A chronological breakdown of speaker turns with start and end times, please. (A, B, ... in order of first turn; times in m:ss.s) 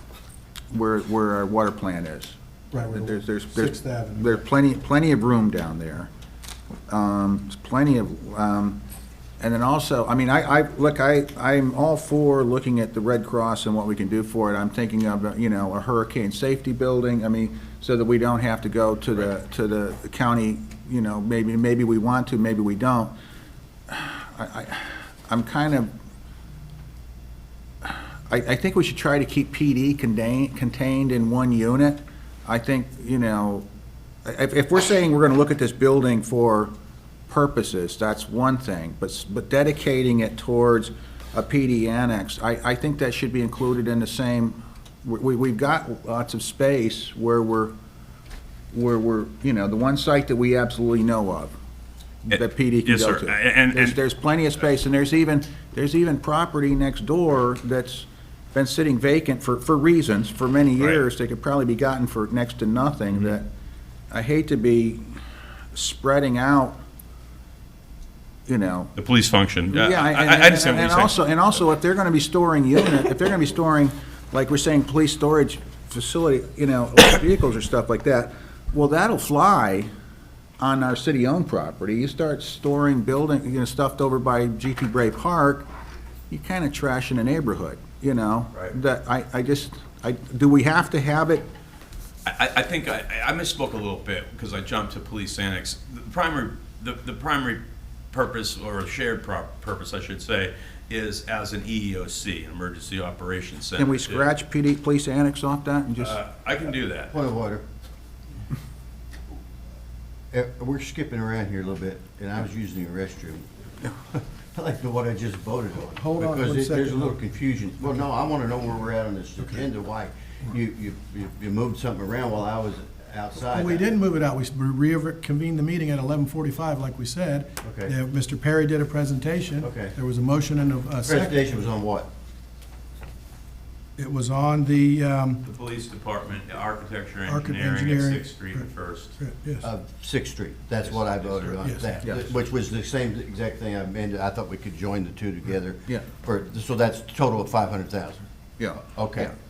0:00.7-0:02.4 A
0:02.7-0:04.4 B
0:02.9-0:06.1 A
0:06.9-0:08.8 A
0:09.4-0:23.1 A
0:23.9-0:25.9 A
0:27.8-0:33.7 A
0:34.2-0:36.7 A
0:37.3-0:47.7 A
0:48.7-0:51.5 A
0:52.2-1:03.5 A
0:52.3-0:54.0 C
1:04.1-1:05.2 A
1:05.7-1:06.8 A
1:08.5-1:08.9 A
1:09.0-1:11.2 C
1:09.7-1:19.9 A
1:20.6-1:25.7 A
1:26.3-1:31.5 A
1:32.2-1:44.3 C
1:43.8-1:46.2 A
1:46.0-1:47.2 C
1:47.0-1:47.6 D
1:50.3-2:03.9 D
1:55.9-1:57.2 B
2:03.4-2:11.5 B
2:07.6-2:07.9 D
2:09.6-2:10.0 D
2:11.0-2:12.1 D
2:14.0-2:15.4 B
2:15.4-2:19.2 C
2:17.2-2:18.7 B
2:19.2-2:19.7 B
2:19.6-2:28.2 D
2:20.8-2:22.1 C
2:21.6-2:22.0 B
2:28.6-2:29.3 A
2:29.0-2:29.3 D